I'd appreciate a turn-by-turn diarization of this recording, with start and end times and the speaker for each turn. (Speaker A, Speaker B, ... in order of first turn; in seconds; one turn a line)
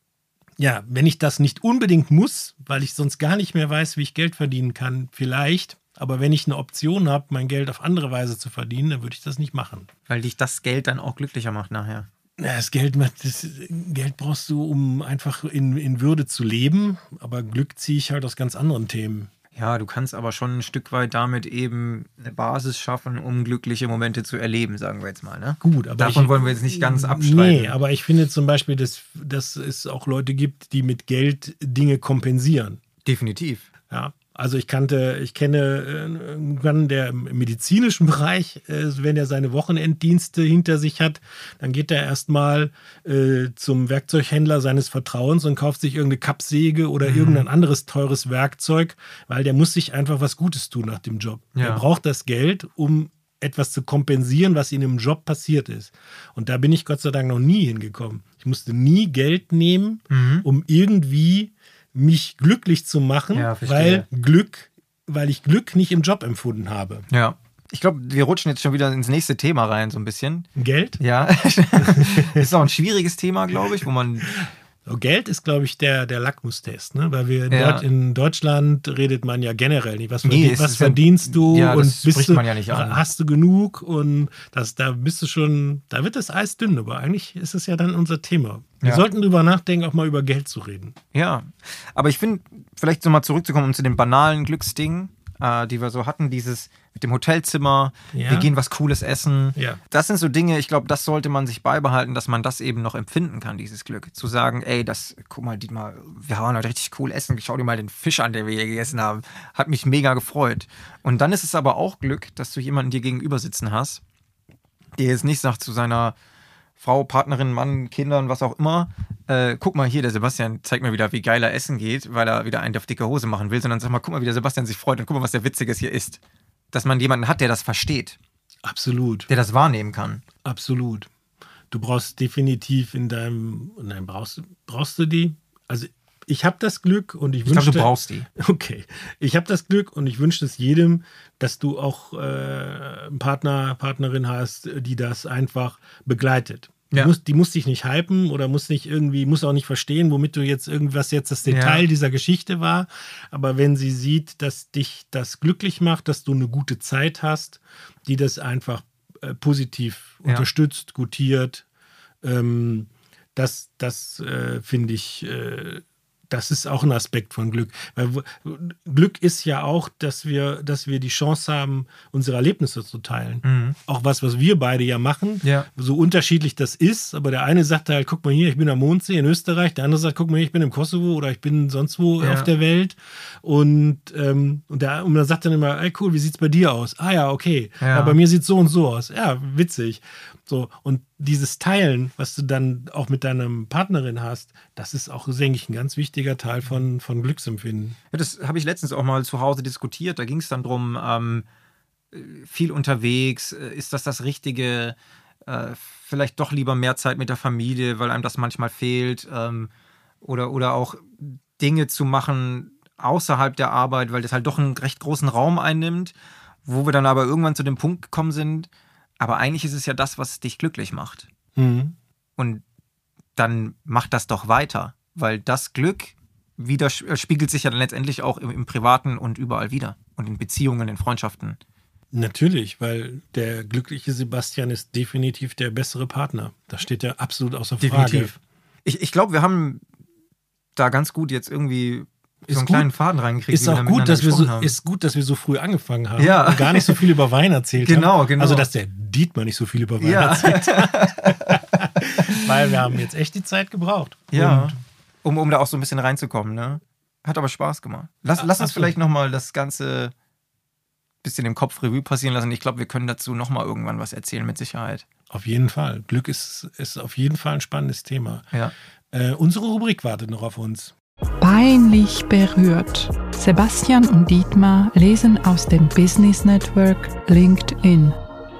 Speaker A: 0.6-9.9
Speaker B: 10.1-12.1
Speaker A: 12.4-19.3
Speaker B: 19.5-27.7
Speaker A: 25.6-32.8
Speaker B: 33.0-33.7
Speaker A: 33.9-67.1
Speaker B: 47.0-47.5
Speaker B: 51.5-51.8
Speaker B: 60.1-60.5
Speaker B: 63.3-64.0
Speaker B: 67.1-70.5
Speaker A: 70.5-71.0
Speaker B: 71.0-74.3
Speaker A: 71.8-72.5
Speaker A: 74.3-91.0
Speaker B: 77.5-77.8
Speaker B: 80.2-83.0
Speaker B: 88.8-89.0
Speaker B: 91.1-114.0
Speaker A: 98.1-98.5
Speaker B: 115.0-116.1
Speaker B: 116.8-126.2
Speaker B: 126.7-128.2
Speaker A: 128.6-129.3
Speaker B: 129.3-130.2
Speaker A: 130.4-131.1
Speaker A: 131.7-161.6
Speaker B: 137.4-138.3
Speaker B: 151.5-151.8
Speaker A: 162.2-198.0
Speaker B: 173.4-173.8
Speaker B: 175.4-175.7
Speaker B: 182.2-182.5
Speaker B: 187.8-188.2
Speaker B: 198.1-201.4
Speaker B: 202.1-204.9
Speaker B: 205.5-209.7
Speaker B: 210.2-216.1
Speaker B: 216.6-218.7
Speaker B: 219.2-221.3
Speaker A: 221.6-221.9
Speaker B: 222.4-222.6
Speaker B: 223.3-231.6
Speaker A: 232.1-238.4
Speaker B: 237.8-238.3
Speaker B: 238.8-239.8
Speaker B: 240.8-244.7
Speaker A: 242.5-242.9
Speaker A: 243.5-254.8
Speaker B: 246.2-247.0
Speaker B: 247.8-248.7
Speaker B: 250.0-252.7
Speaker B: 254.3-260.1
Speaker A: 258.4-258.9
Speaker B: 261.2-265.1
Speaker A: 265.3-268.4
Speaker A: 269.1-270.9
Speaker C: 271.4-278.1